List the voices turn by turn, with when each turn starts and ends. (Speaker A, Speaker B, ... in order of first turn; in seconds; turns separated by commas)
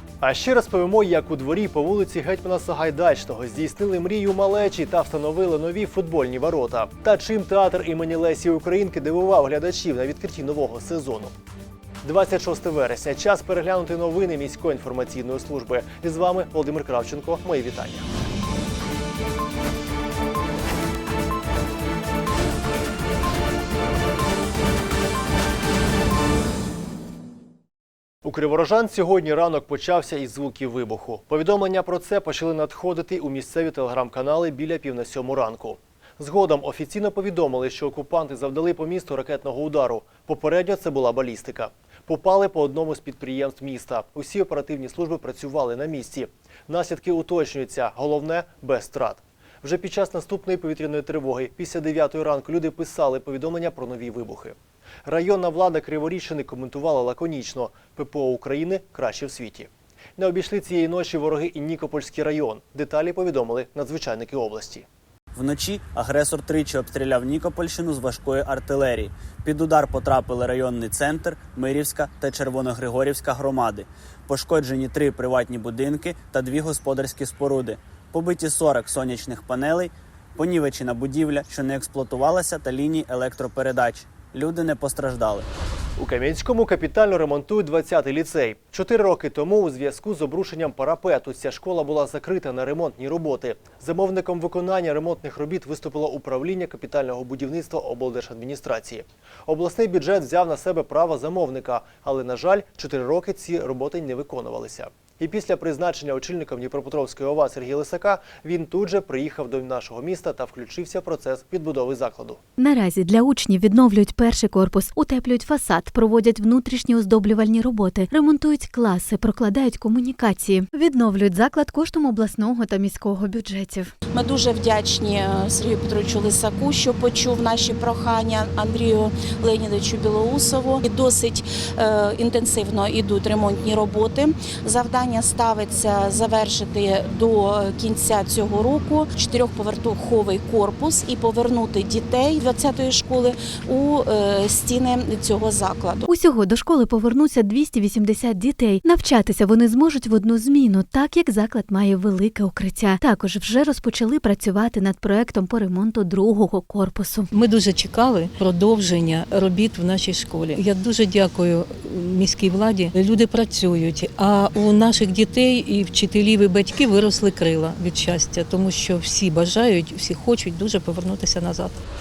Speaker A: 0.2-11.3, Speaker A: 12.0-18.1, Speaker A: 28.2-64.9, Speaker B: 65.3-85.5, Speaker A: 86.0-112.4, Speaker C: 112.6-123.8, Speaker D: 124.1-146.1, Speaker C: 146.2-157.2, Speaker E: 157.4-161.6, Speaker E: 162.1-171.7